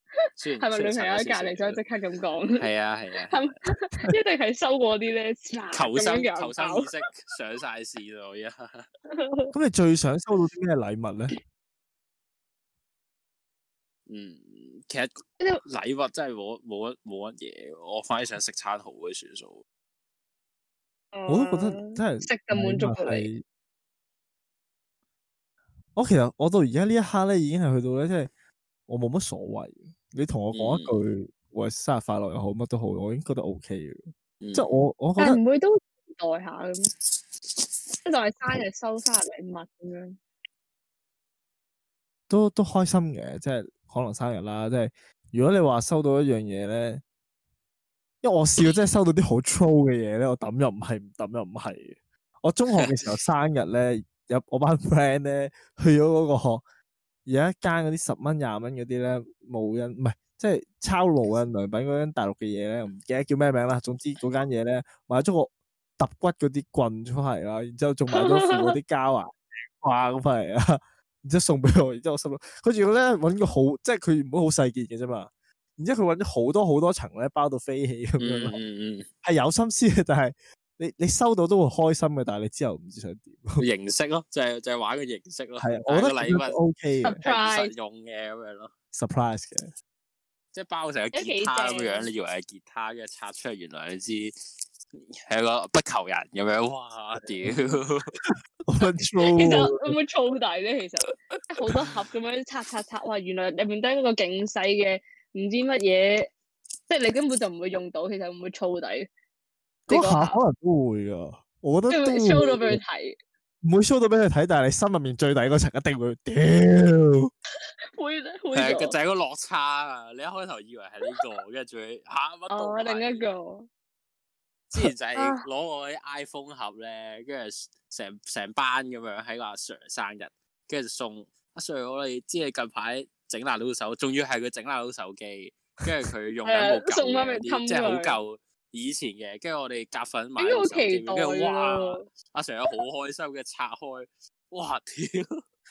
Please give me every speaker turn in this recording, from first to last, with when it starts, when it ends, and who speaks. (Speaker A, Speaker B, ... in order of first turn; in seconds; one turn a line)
Speaker A: 0.4-1.8
Speaker B: 0.6-2.6
Speaker A: 2.5-3.5
Speaker B: 3.3-6.9
Speaker A: 5.7-8.9
Speaker B: 9.2-9.5
Speaker C: 9.5-11.3
Speaker A: 14.1-19.6
Speaker B: 21.1-23.3
Speaker C: 21.3-23.4
Speaker C: 25.9-28.3
Speaker C: 28.9-34.0
Speaker A: 30.6-30.9
Speaker A: 34.4-34.6
Speaker C: 34.5-35.4
Speaker B: 35.2-36.9
Speaker B: 38.0-40.2
Speaker C: 42.3-47.0
Speaker C: 48.2-56.6
Speaker C: 57.3-78.6
Speaker B: 68.2-68.7
Speaker A: 78.2-79.1
Speaker C: 79.2-83.6
Speaker A: 83.6-86.6
Speaker C: 85.6-87.2
Speaker B: 87.0-87.7
Speaker A: 87.2-88.7
Speaker C: 88.9-89.7
Speaker A: 90.5-94.3
Speaker B: 91.1-92.1
Speaker A: 95.0-98.1
Speaker C: 97.2-97.5
Speaker C: 98.7-100.0
Speaker B: 99.3-106.3
Speaker B: 106.9-109.1
Speaker C: 109.9-112.8
Speaker B: 109.9-110.4
Speaker B: 111.9-113.2
Speaker C: 113.6-117.3
Speaker B: 118.0-119.0
Speaker A: 118.5-123.3
Speaker B: 122.5-123.7
Speaker A: 124.7-145.4
Speaker B: 125.2-125.4
Speaker B: 136.4-138.2
Speaker B: 140.4-142.0